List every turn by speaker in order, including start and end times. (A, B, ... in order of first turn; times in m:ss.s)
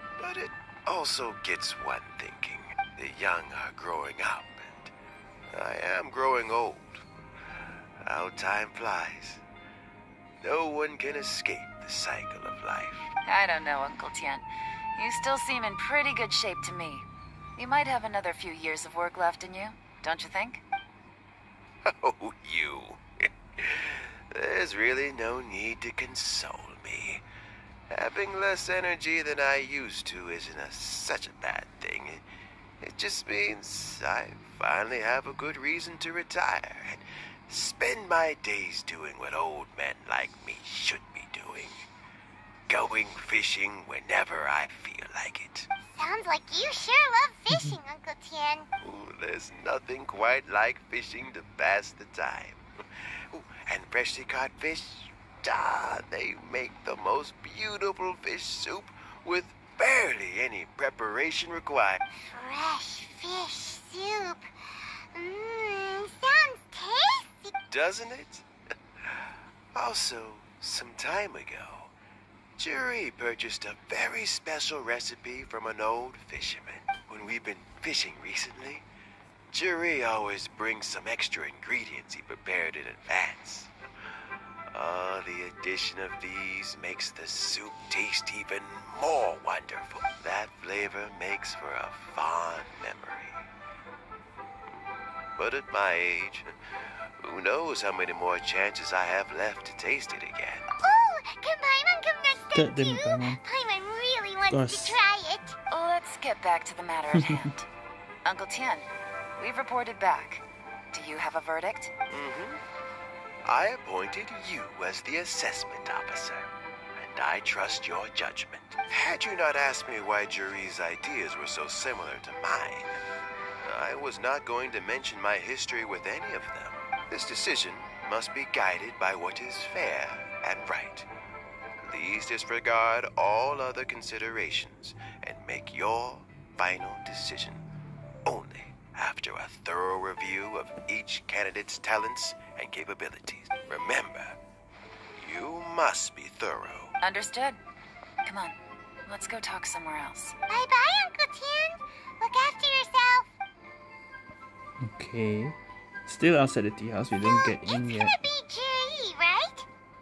0:00.2-0:04.9 A
0:05.5-0:07.0 A
0:08.0-0:09.4 A
0:10.4-0:13.1 A
0:13.2-0:17.0 B
0:17.6-0:20.6 B
0:21.8-0:27.2 A
0:27.9-0:32.2 A
0:32.8-0:41.8 A
0:42.7-0:45.7 A
0:45.9-0:48.7 C
0:48.8-0:52.6 A
0:53.3-1:02.0 A
1:02.2-1:04.5 C
1:05.1-1:07.5 C
1:07.7-1:08.4 A
1:09.0-1:11.9 A
1:12.6-1:18.8 A
1:19.5-1:23.7 A
1:24.7-1:33.4 A
1:35.4-1:36.5 A
1:37.2-1:40.7 A
1:40.8-1:45.6 C
1:42.5-1:43.4 D
1:44.5-1:45.0 D
1:45.7-1:47.7 B
1:48.2-1:48.8 B
1:49.4-1:51.9 B
1:52.1-1:52.6 A
1:53.4-2:03.0 A
2:03.6-2:11.1 A
2:11.8-2:17.6 A
2:18.2-2:24.4 A
2:25.2-2:26.9 A
2:27.0-2:27.6 B
2:28.2-2:30.4 B
2:30.5-2:33.3 C
2:34.8-2:38.1 D
2:37.2-2:39.6 C